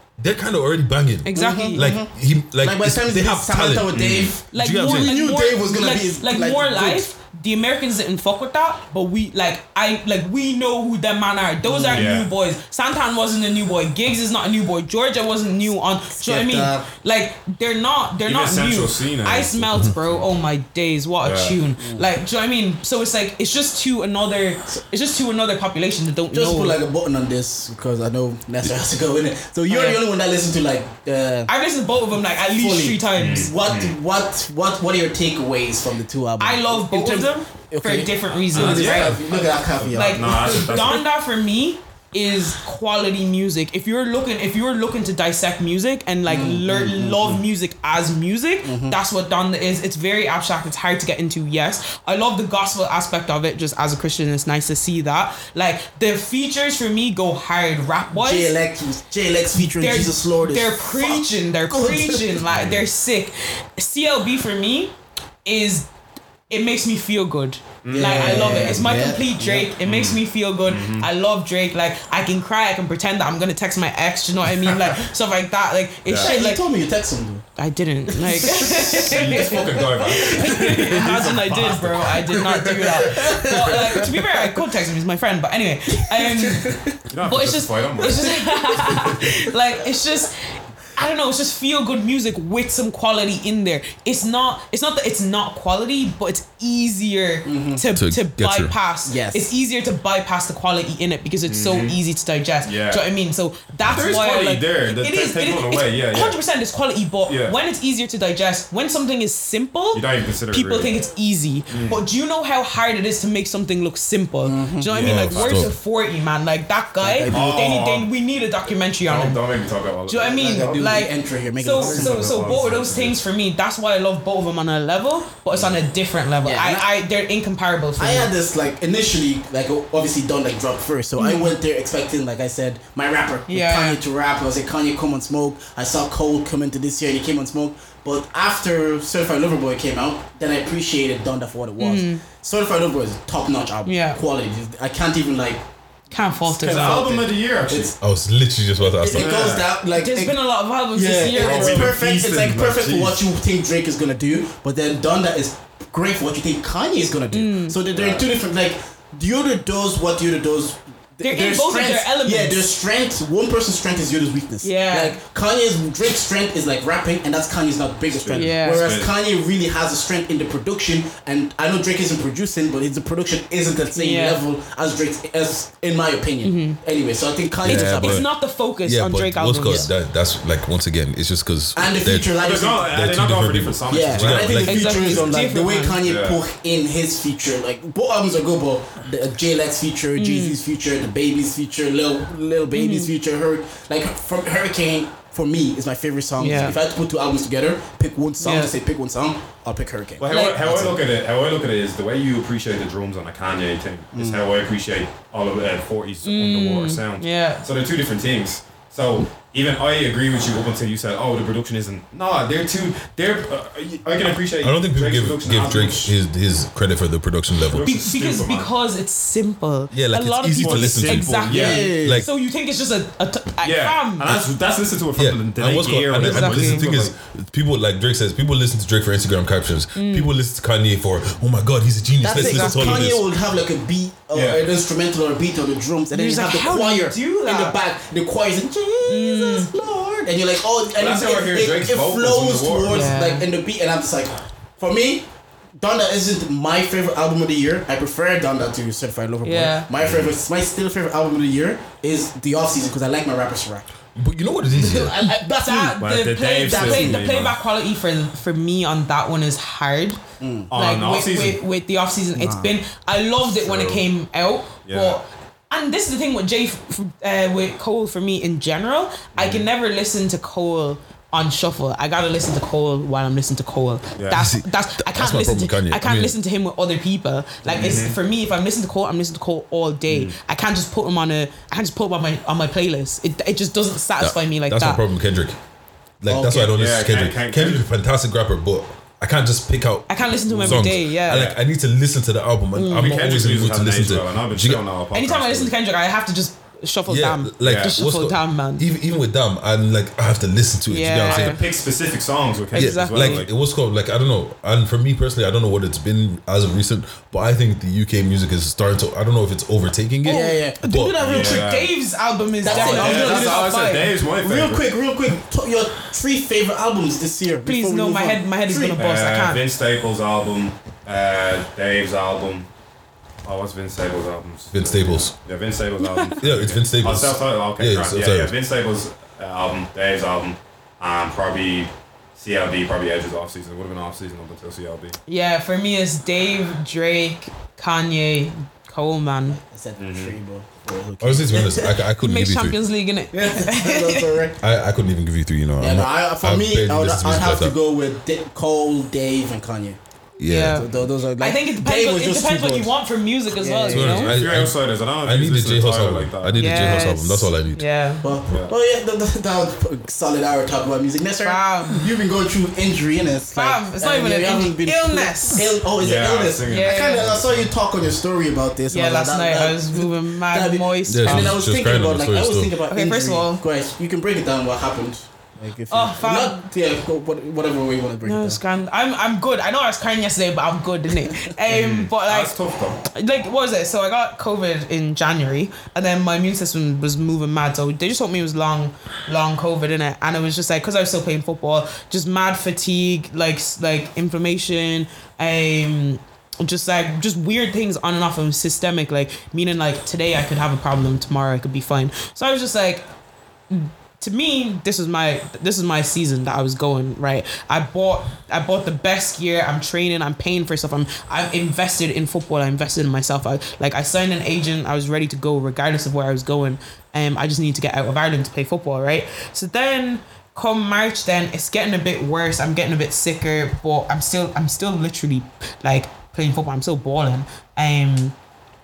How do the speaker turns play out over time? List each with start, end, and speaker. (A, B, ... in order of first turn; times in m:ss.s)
0:00.2-0:05.2 A
0:01.2-0:01.8 B
0:01.3-0:07.0 C
0:03.9-0:04.3 D
0:04.5-0:26.8 B
0:11.6-0:12.1 C
0:11.9-0:12.3 D
0:16.2-0:16.9 C
0:18.2-0:20.2 D
0:21.2-0:21.6 D
0:21.8-0:22.0 C
0:26.3-0:31.5 C
0:29.7-0:30.0 B
0:31.5-0:33.5 B
0:32.5-0:41.0 C
0:33.2-0:33.9 D
0:36.4-0:39.2 B
0:38.5-0:41.0 D
0:39.9-0:58.5 B
0:46.2-0:47.4 C
0:48.6-0:49.0 C
0:58.1-1:02.5 C
0:59.6-1:04.9 B
1:02.4-1:02.8 D
1:05.4-1:05.9 B
1:06.5-1:16.6 B
1:07.8-1:08.8 D
1:07.9-1:09.7 C
1:09.8-1:11.1 D
1:16.0-1:16.3 D
1:16.1-1:17.4 C
1:17.6-1:30.3 B
1:18.1-1:21.3 C
1:18.7-1:22.3 D
1:22.1-1:24.4 C
1:26.1-1:27.0 C
1:27.1-1:28.2 D
1:28.0-1:29.4 C
1:31.0-1:59.4 B
1:37.4-1:37.8 C
1:38.0-1:38.7 A
1:39.0-1:39.5 C
1:41.5-1:42.0 D
1:42.6-1:43.0 D
1:43.8-1:44.1 A
1:43.9-1:46.4 D
1:47.3-1:47.6 D
1:49.9-1:50.9 D
1:51.7-1:52.0 D
1:54.4-1:55.0 C
1:54.9-1:55.7 D
1:55.0-1:55.7 A
1:57.0-1:57.5 C
1:57.3-1:58.1 D
1:59.0-2:00.9 D
2:00.1-2:08.3 B
2:00.3-2:02.7 C
2:01.7-2:03.2 D
2:06.4-2:06.8 C
2:08.0-2:25.6 C
2:11.2-2:11.5 B
2:13.5-2:14.0 B
2:21.8-2:22.2 B
2:23.8-2:24.2 B
2:26.1-2:27.0 B
2:26.5-2:28.0 C
2:26.6-2:27.9 D
2:28.0-2:29.4 A
2:28.9-2:30.4 C
2:29.1-2:29.7 D
2:29.9-2:31.9 B
2:30.9-2:58.2 C
2:31.2-2:33.2 D
2:37.3-2:37.8 B
2:37.9-2:38.3 D
2:41.2-2:42.6 B
2:44.6-2:45.2 B
2:48.1-2:49.1 D
2:48.3-2:48.9 B
2:53.9-2:54.4 B
2:56.4-2:56.8 B
2:57.6-2:58.3 A
2:57.6-2:59.9 B
2:58.8-3:05.4 A
3:01.7-3:02.9 C
3:02.4-3:04.6 D
3:03.9-3:21.0 C
3:04.6-3:06.0 B
3:06.0-3:06.4 D
3:10.2-3:10.6 B
3:12.7-3:13.1 B
3:16.4-3:16.8 B
3:16.4-3:16.8 D
3:18.4-3:18.7 B
3:20.2-3:36.1 D
3:20.3-3:20.6 B
3:24.1-3:24.4 C
3:26.2-3:27.6 B
3:34.6-3:37.9 A
3:37.7-3:38.7 D
3:37.8-3:44.3 B
3:39.9-3:42.3 A
3:40.5-3:41.9 D
3:41.5-3:42.2 C
3:43.6-3:47.1 D
3:45.2-3:53.2 A
3:46.2-3:46.8 B
3:49.9-3:50.3 B
3:52.2-4:05.2 C
3:52.2-3:53.1 B
3:54.3-3:54.6 D
3:56.1-3:57.8 B
3:59.0-3:59.7 B
4:00.9-4:03.1 D
4:02.9-4:03.5 B
4:05.8-4:13.8 C
4:09.4-4:09.9 B
4:10.0-4:10.3 D
4:14.1-4:15.2 A
4:14.8-4:16.0 C
4:14.8-4:20.2 B
4:16.0-4:17.5 D
4:16.6-4:17.2 C
4:20.4-4:20.7 C
4:20.7-4:21.6 D
4:20.7-4:45.0 B
4:22.4-4:22.7 C
4:23.4-4:24.0 A
4:24.9-4:25.2 D
4:29.3-4:29.6 D
4:34.2-4:34.4 D
4:34.3-4:36.4 A
4:37.7-4:38.1 D
4:40.1-4:40.3 D
4:44.2-4:45.6 A
4:46.2-4:54.8 A
4:46.3-4:46.7 C
4:46.7-4:47.8 D
4:50.1-4:51.5 B
4:50.5-4:51.6 D
4:52.7-4:53.1 B
4:52.9-4:55.7 D
4:55.1-4:58.9 B
4:57.1-5:01.6 A
4:57.6-4:58.0 D
5:00.9-5:01.6 B
5:01.3-5:03.5 D
5:02.7-5:03.5 B
5:02.7-5:11.5 A
5:10.2-5:14.1 B
5:10.2-5:11.6 C
5:11.2-5:11.9 D
5:12.6-5:13.7 C
5:12.6-5:14.8 D
5:14.4-5:19.0 C
5:17.6-5:19.6 B
5:19.0-5:22.7 D
5:23.4-5:35.2 D
5:24.7-5:25.3 A
5:26.0-5:26.3 B
5:26.4-5:28.5 A
5:35.3-5:39.6 B
5:39.5-5:42.0 C
5:40.0-5:40.3 D
5:41.2-5:42.8 A
5:42.2-5:44.3 B
5:43.3-5:44.6 C
5:44.6-5:47.7 A
5:45.8-5:50.0 C
5:50.4-5:50.9 A
5:50.4-5:50.8 B
5:50.6-5:52.9 C
5:51.4-5:54.3 B
5:53.5-5:54.3 C
5:53.9-5:57.8 A
5:54.1-5:56.6 D
5:56.6-5:58.2 B
5:58.2-6:18.6 C
6:01.4-6:02.0 B
6:03.5-6:05.7 B
6:06.0-6:07.7 D
6:06.7-6:07.3 B
6:08.9-6:11.6 B
6:11.1-6:12.7 A
6:12.9-6:13.6 B
6:15.9-6:16.6 B
6:18.2-6:22.5 B
6:21.7-6:23.0 D
6:23.0-6:43.0 B
6:43.7-7:08.3 B